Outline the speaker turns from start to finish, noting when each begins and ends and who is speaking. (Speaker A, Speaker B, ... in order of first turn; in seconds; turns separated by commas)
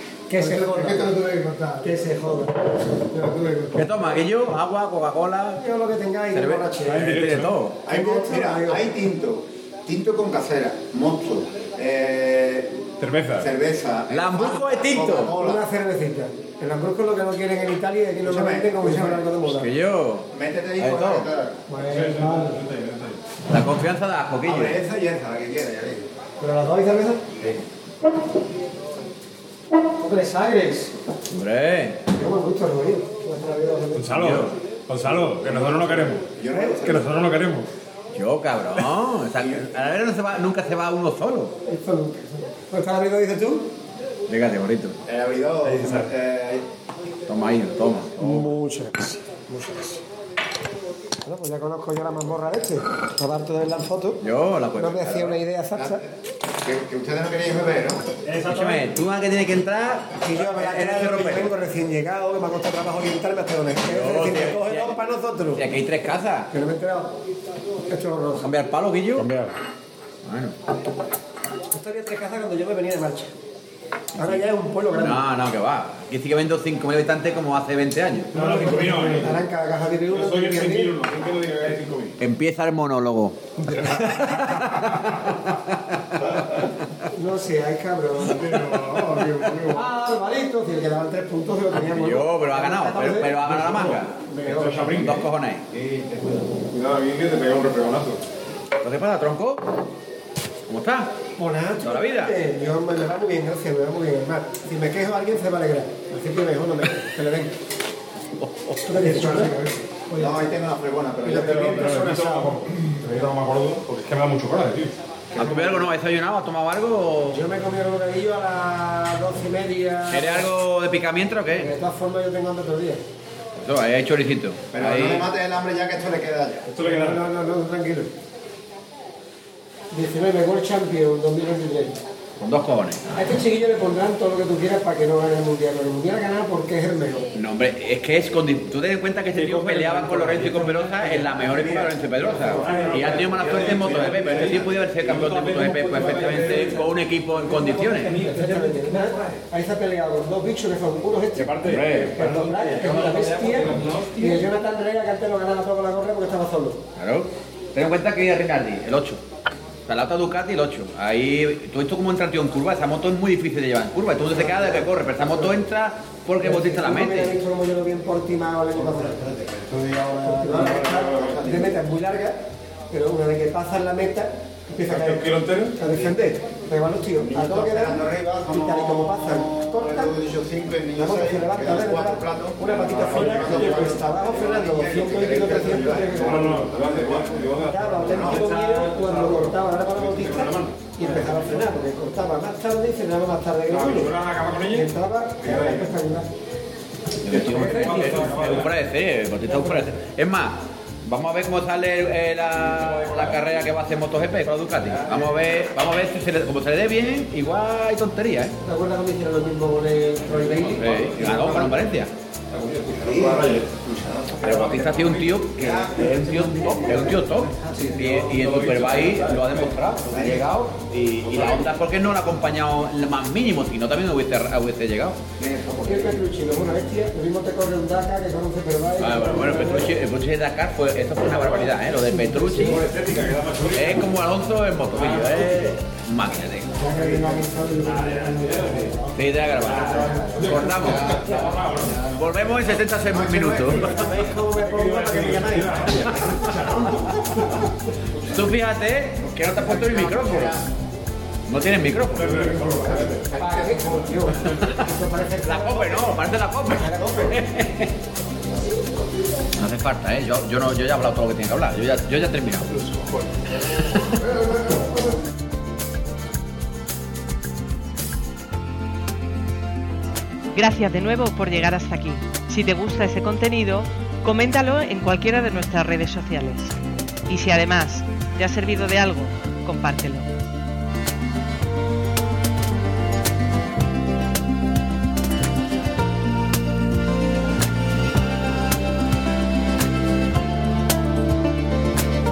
Speaker A: 0.3-1.1, Speaker B: 0.3-2.0, Speaker A: 1.8-2.5, Speaker B: 3.0-3.8, Speaker C: 3.8-5.7, Speaker A: 5.6-7.1, Speaker C: 6.3-7.8, Speaker D: 6.9-7.6, Speaker A: 7.8-8.9, Speaker E: 7.9-12.8, Speaker D: 13.0-13.5, Speaker E: 13.4-15.6, Speaker C: 14.1-15.3, Speaker A: 15.3-19.7, Speaker E: 18.2-19.3, Speaker C: 19.5-21.3, Speaker E: 20.3-21.6, Speaker A: 21.7-22.6, Speaker D: 21.8-23.2, Speaker C: 23.5-24.8, Speaker E: 24.4-26.1, Speaker A: 26.4-27.3, Speaker A: 29.9-30.9, Speaker C: 31.3-32.0, Speaker A: 32.2-34.5, Speaker D: 34.0-36.3, Speaker C: 34.1-34.5, Speaker E: 35.0-37.1, Speaker A: 36.5-36.8, Speaker D: 36.8-37.7, Speaker C: 38.1-41.6, Speaker A: 41.7-43.7, Speaker C: 44.3-45.0, Speaker E: 45.0-46.7, Speaker D: 45.6-46.1, Speaker C: 47.3-48.4, Speaker A: 48.2-50.0, Speaker A: 51.2-54.2, Speaker C: 54.2-55.2, Speaker A: 54.8-56.0, Speaker E: 55.8-58.1, Speaker D: 58.3-58.9, Speaker C: 58.5-61.5, Speaker A: 60.2-65.7, Speaker C: 63.9-65.0, Speaker C: 65.5-66.5, Speaker A: 66.5-67.2, Speaker A: 67.9-68.5, Speaker C: 68.4-69.3, Speaker D: 69.2-69.6, Speaker C: 70.2-70.6, Speaker A: 71.7-73.3, Speaker A: 74.2-75.2, Speaker C: 74.2-78.3, Speaker D: 78.3-79.4, Speaker A: 78.3-81.0, Speaker D: 80.1-82.2, Speaker C: 82.2-86.7, Speaker D: 83.8-85.3, Speaker A: 87.1-88.8, Speaker D: 88.2-89.9, Speaker A: 89.7-95.1, Speaker C: 91.7-94.2, Speaker D: 93.8-96.0, Speaker C: 94.9-95.7, Speaker E: 95.8-96.4, Speaker D: 96.6-98.2, Speaker C: 98.8-99.6, Speaker C: 100.7-101.2, Speaker A: 101.4-107.5, Speaker C: 101.8-102.3, Speaker C: 108.4-108.8, Speaker A: 108.8-110.5, Speaker B: 109.0-109.8, Speaker E: 110.2-112.0, Speaker A: 111.2-112.6, Speaker D: 111.3-115.5, Speaker C: 115.3-117.4, Speaker A: 117.3-120.5, Speaker C: 120.1-121.7, Speaker A: 121.5-123.0, Speaker C: 123.5-125.3, Speaker E: 124.7-126.7, Speaker D: 126.7-127.2, Speaker A: 126.8-128.1, Speaker A: 129.9-132.0, Speaker C: 132.4-133.0, Speaker A: 133.1-137.3, Speaker C: 137.3-148.2, Speaker D: 139.3-146.9, Speaker E: 143.5-144.7, Speaker A: 146.0-156.8, Speaker D: 147.5-149.4, Speaker D: 151.3-154.4, Speaker C: 151.6-152.2, Speaker C: 157.0-159.2, Speaker C: 159.9-167.3, Speaker A: 164.3-165.6, Speaker A: 166.4-169.2, Speaker E: 168.7-171.8, Speaker A: 170.2-180.2, Speaker D: 170.5-171.4, Speaker D: 174.9-175.8, Speaker E: 177.2-188.5, Speaker A: 181.0-186.7, Speaker D: 182.7-184.1, Speaker D: 185.9-191.6, Speaker A: 187.7-194.1, Speaker D: 193.7-194.9, Speaker A: 194.7-196.3, Speaker E: 195.4-195.8, Speaker C: 197.2-208.6, Speaker D: 197.3-198.7, Speaker A: 199.5-199.9, Speaker D: 202.6-203.4, Speaker A: 208.6-211.7, Speaker D: 210.2-211.8, Speaker C: 210.8-212.1, Speaker D: 212.5-213.8, Speaker E: 213.0-217.0, Speaker C: 214.4-225.2, Speaker D: 214.5-215.3, Speaker A: 215.6-218.1, Speaker D: 217.8-219.6, Speaker E: 220.1-221.7, Speaker E: 225.4-226.2, Speaker A: 225.8-230.0, Speaker C: 229.0-232.8, Speaker D: 231.3-231.7, Speaker A: 231.8-232.8, Speaker D: 232.6-234.2, Speaker C: 233.7-236.8, Speaker D: 234.9-235.8, Speaker A: 236.8-241.4, Speaker D: 237.8-242.2, Speaker C: 239.2-241.3, Speaker E: 240.6-241.8, Speaker C: 242.0-244.1, Speaker E: 243.1-244.1, Speaker A: 243.7-246.5, Speaker D: 244.3-247.5, Speaker C: 246.0-246.3, Speaker E: 246.5-247.1, Speaker C: 248.2-250.6, Speaker E: 249.2-250.7, Speaker C: 251.5-252.5, Speaker D: 252.1-253.2, Speaker E: 252.8-254.2, Speaker A: 252.9-256.2, Speaker C: 254.4-257.9, Speaker A: 256.7-257.5, Speaker C: 259.6-262.7, Speaker B: 262.7-265.3, Speaker C: 263.8-264.1, Speaker F: 270.5-276.8, Speaker F: 277.3-280.3